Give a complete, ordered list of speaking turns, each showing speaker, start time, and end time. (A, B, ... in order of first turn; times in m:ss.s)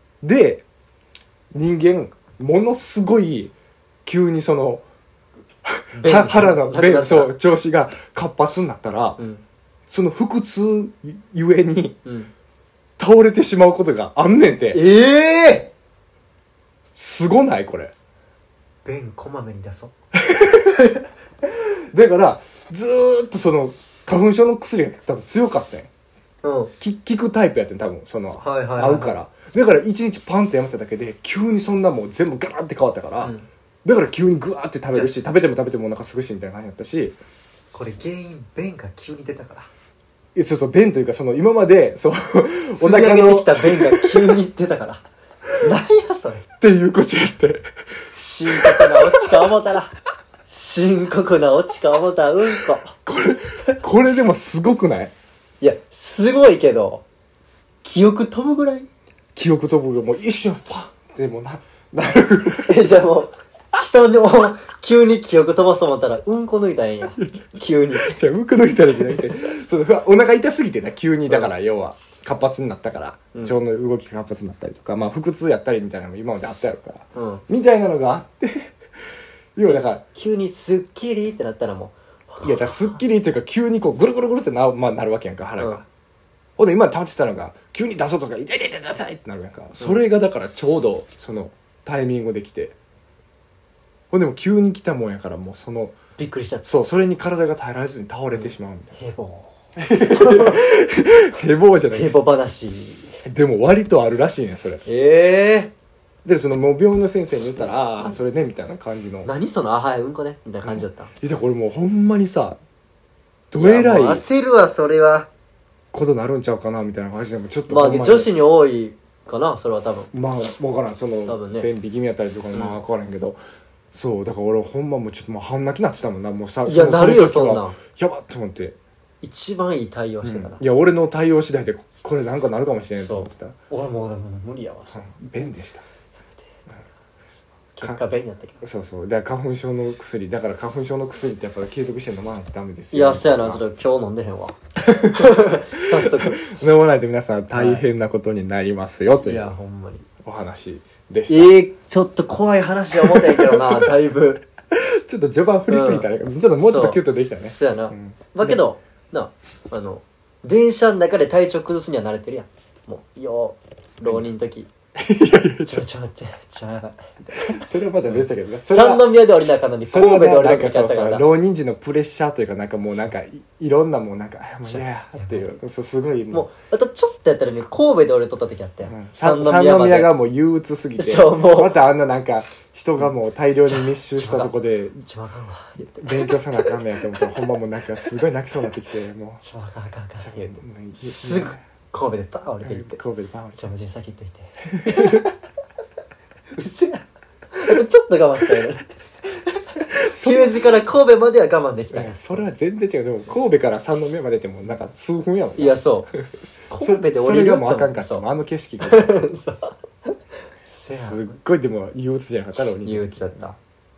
0:00.2-0:00.6 A
0:01.5-0:03.5 A
0:04.0-0:04.8 A
0:05.6-0:09.2 A
0:05.9-0:07.3 B
0:09.9-0:12.0 A
0:12.0-0:12.3 B
0:13.0-0:14.8 A
0:14.7-0:15.7 B
0:16.9-0:17.9 A
0:18.8-0:19.9 B
0:20.2-0:20.9 A
0:21.4-0:25.9 A
0:26.4-0:26.7 B
0:26.8-0:37.2 A
0:28.4-0:29.1 B
0:37.7-0:39.7 B
0:40.3-0:44.4 A
0:42.8-0:45.0 B
0:45.6-0:46.4 B
0:46.6-0:47.7 A
0:48.1-0:49.9 B
0:48.5-0:49.4 A
0:50.5-0:52.9 B
0:53.0-0:55.1 A
0:55.6-0:57.0 B
0:57.8-0:58.9 B
0:59.3-1:02.9 A
1:02.7-1:08.2 B
1:07.2-1:18.7 A
1:11.3-1:11.5 B
1:17.1-1:17.4 B
1:19.6-1:20.0 A
1:19.6-1:23.0 B
1:22.4-1:25.8 A
1:26.6-1:32.7 A
1:34.1-1:36.0 A
1:36.2-1:36.6 B
1:36.6-1:39.0 A
1:38.3-1:40.6 B
1:39.8-1:42.1 A
1:41.9-1:43.2 B
1:43.2-1:44.8 A
1:44.8-1:45.7 B
1:46.2-1:49.3 A
1:49.2-1:51.1 B
1:50.6-1:52.6 A
1:53.5-1:54.2 A
1:53.6-1:55.3 B
1:55.9-1:58.3 A
1:57.7-2:00.1 B
2:00.1-2:03.4 A
2:01.2-2:01.7 B
2:02.5-2:02.8 B
2:03.9-2:08.8 A
2:06.6-2:07.8 B
2:09.2-2:10.6 B
2:10.2-2:13.6 A
2:13.0-2:15.1 B
2:14.9-2:15.8 A
2:17.7-2:18.6 B
2:18.6-2:23.6 A
2:22.9-2:26.4 B
2:24.8-2:29.5 A
2:27.5-2:27.8 B
2:29.2-2:30.0 B
2:30.2-2:31.5 A
2:31.3-2:34.4 B
2:33.0-2:33.9 A
2:34.7-2:38.6 A
2:35.7-2:36.1 B
2:36.6-2:44.7 B
2:45.0-2:45.8 A
2:45.6-2:51.2 B
2:47.3-2:49.1 A
2:49.8-2:56.5 A
2:54.6-2:55.6 B
2:56.3-3:00.1 B
2:58.8-3:05.0 A
3:01.0-3:01.8 B
3:03.6-3:07.2 B
3:06.0-3:09.4 A
3:09.4-3:13.0 B
3:10.2-3:11.6 A
3:12.6-3:13.6 A
3:13.6-3:15.3 B
3:14.6-3:15.3 A
3:16.5-3:22.4 B
3:19.9-3:20.7 A
3:21.9-3:29.2 A
3:25.6-3:26.1 B
3:26.7-3:28.2 B
3:28.8-3:30.1 B
3:30.7-3:31.3 B
3:30.9-3:33.6 A
3:32.8-3:33.5 B